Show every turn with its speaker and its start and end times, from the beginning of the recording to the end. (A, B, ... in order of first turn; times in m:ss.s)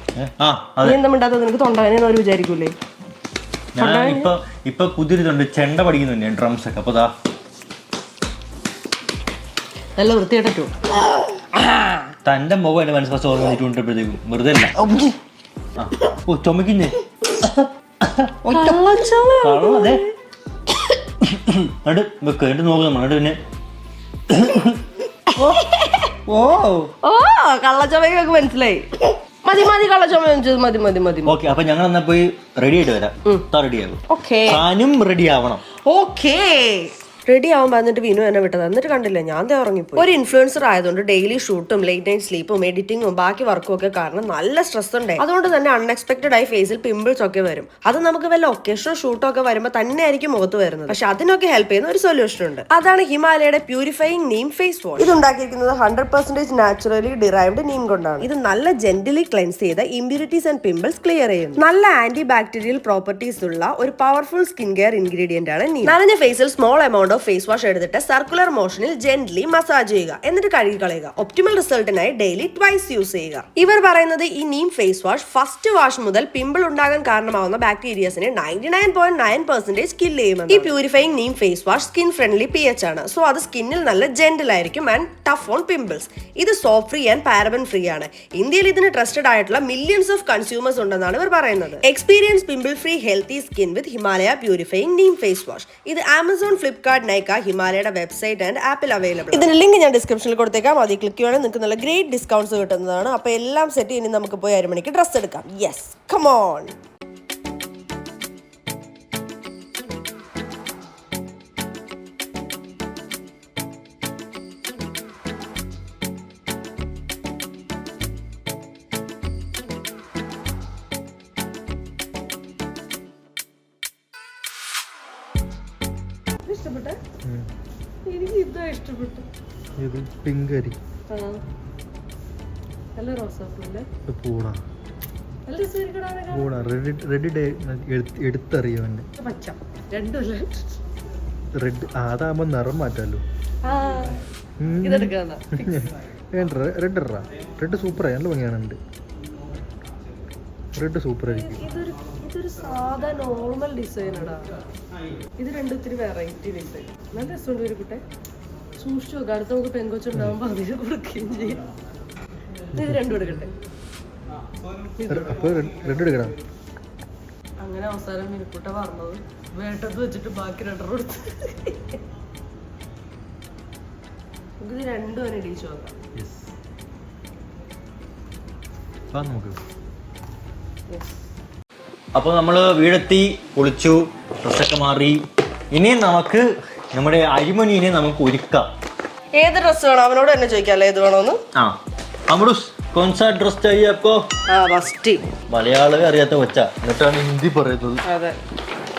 0:00.2-0:01.0 A
0:00.8-0:02.7 B
0:03.7-0:07.1 A
0:03.8-0:04.3 B
0:10.0-0:12.1 B
0:12.2-0:15.1 A
0:15.7-0:18.8 A
0:18.5-0:20.1 B
0:19.4-0:20.0 A
0:21.2-0:23.4 A
0:24.3-0:24.8 A
0:25.4-0:26.1 B
0:26.2-0:26.9 A
0:27.0-0:31.4 B
0:31.2-0:35.6 A
0:34.1-0:34.6 B
0:35.8-1:46.7 B
2:06.5-2:07.0 B
2:07.2-2:07.5 C
2:08.0-2:09.2 B
2:09.8-2:10.8 C
2:11.1-2:11.4 B
2:13.0-2:13.8 B
2:14.1-2:14.6 C
2:15.5-2:16.5 B
2:16.3-2:19.1 C
2:19.2-2:20.7 B
2:21.6-2:23.2 C
2:23.6-2:24.2 B
2:24.6-2:28.8 C
2:24.8-2:25.9 B
2:30.7-2:31.6 C
2:31.4-2:34.5 B
2:35.4-2:38.0 B
2:38.8-2:41.6 B
2:42.7-2:43.5 B
2:45.1-2:46.3 C
2:47.6-2:52.0 B
2:54.6-2:55.9 B
2:56.2-2:56.5 A
2:59.1-2:59.6 A
3:02.1-3:08.7 A
3:09.3-3:11.4 B
3:12.3-3:14.2 A
3:14.5-3:15.2 B
3:15.5-3:18.0 A
3:18.0-3:18.4 B